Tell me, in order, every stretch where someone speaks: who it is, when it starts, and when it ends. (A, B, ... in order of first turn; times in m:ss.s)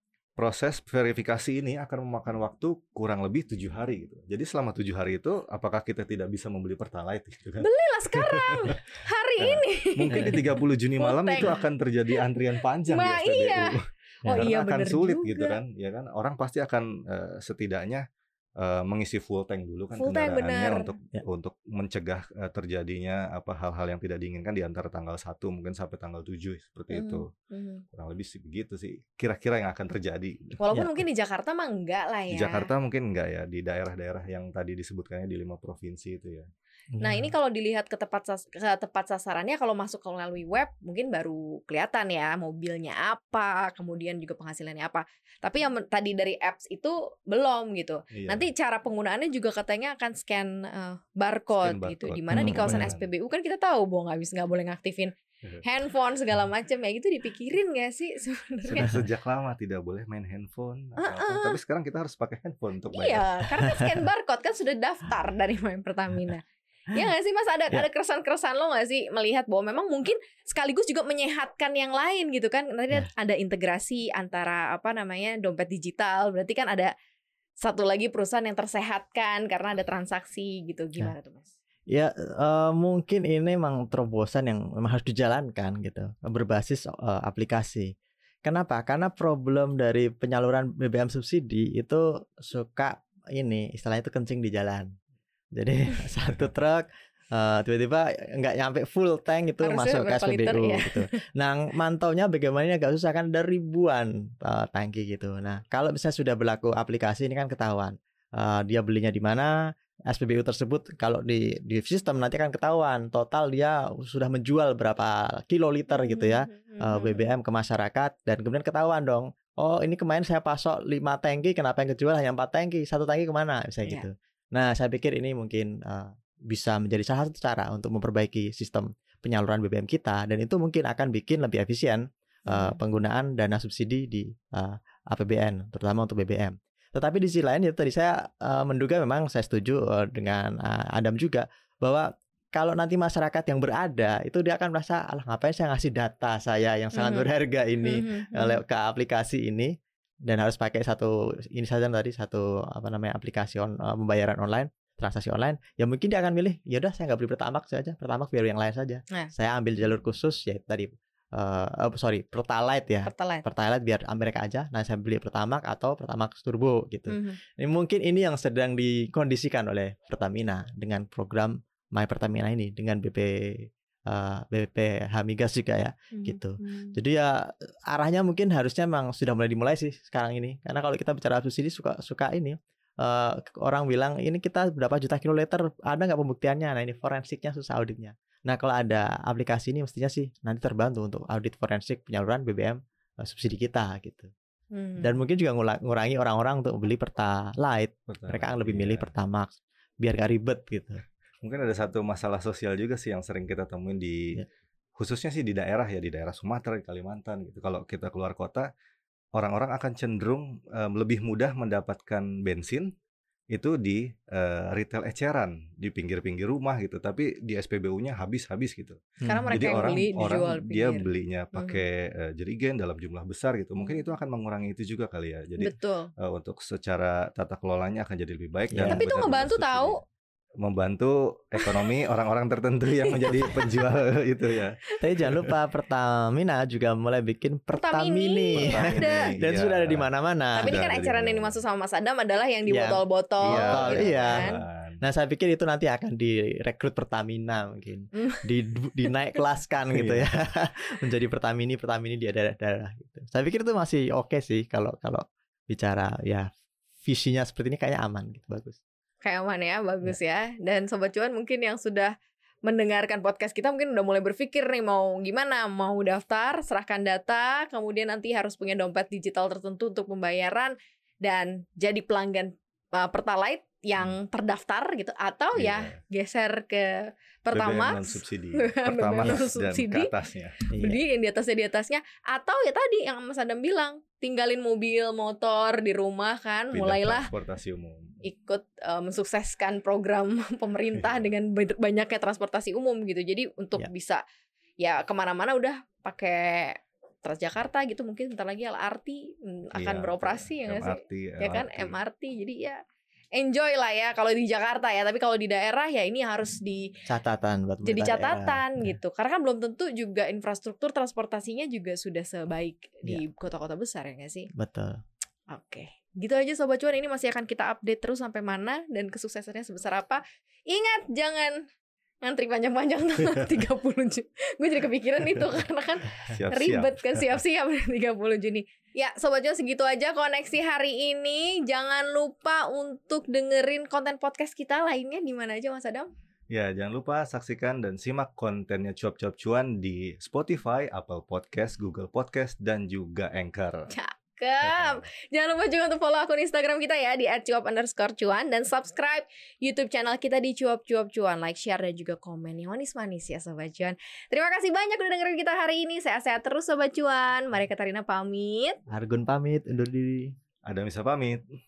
0:00.4-0:08.8 A
0:07.6-0:11.6 B
0:09.4-0:18.0 A
0:12.9-0:15.6 B
0:14.2-0:14.5 C
0:18.6-0:27.3 A
0:20.0-0:20.9 B
0:26.9-0:27.8 B
0:27.9-0:30.6 A
0:30.6-0:32.7 B
0:30.7-0:31.0 C
0:32.3-0:36.5 A
0:37.0-0:37.3 C
0:37.0-0:55.1 B
0:48.1-0:48.5 A
0:51.5-0:53.1 A
0:52.3-0:52.9 C
0:55.6-0:59.0 B
0:58.6-1:03.3 A
1:01.0-1:01.6 B
1:02.9-1:16.9 B
1:17.6-1:21.5 B
1:21.9-1:27.9 C
1:28.4-1:34.9 C
1:35.6-1:49.5 C
1:39.6-1:41.1 B
1:50.1-2:29.7 C
1:55.9-1:57.3 B
2:12.5-2:12.8 B
2:27.0-2:27.3 B
2:27.8-2:28.6 B
2:30.3-3:14.3 C
2:43.1-2:43.5 B
2:47.1-2:47.4 B
2:56.1-2:57.0 B
3:14.7-3:15.2 B
3:15.0-3:21.0 C
3:18.1-3:19.1 A
3:21.4-3:24.4 A
3:25.0-3:28.7 A
3:29.4-3:32.9 A
3:33.5-3:50.0 A
3:39.2-3:40.1 C
3:39.3-3:41.8 B
3:43.8-3:44.1 B
3:45.6-3:46.1 B
3:48.7-3:49.0 C
3:48.9-3:50.0 B
3:50.6-3:55.5 A
3:53.0-3:53.7 B
3:55.0-4:00.8 C
3:57.7-3:59.2 B
3:58.6-4:01.6 A
4:00.6-4:04.6 B
4:02.7-4:04.5 C
4:03.4-4:05.0 A
4:05.0-4:16.5 C
4:08.2-4:08.4 B
4:09.9-4:10.3 A
4:17.1-4:18.8 C
4:19.2-4:22.1 B
4:22.7-4:47.3 B
4:35.6-4:36.0 A
4:37.5-4:40.6 A
4:40.7-4:41.0 C
4:46.7-4:48.1 A
4:48.2-4:54.2 B
4:50.9-4:51.3 A
4:54.8-5:02.8 B
4:59.8-5:02.0 A
5:03.4-5:06.9 B
5:07.1-5:08.6 C
5:07.8-5:14.5 B
5:14.6-5:15.0 C
5:15.5-5:21.6 B
5:22.2-5:36.1 B
5:26.3-5:27.3 A
5:36.5-5:43.9 A
5:43.9-5:58.8 B
5:44.6-5:45.1 A
5:58.9-6:00.3 C
6:00.6-6:01.4 A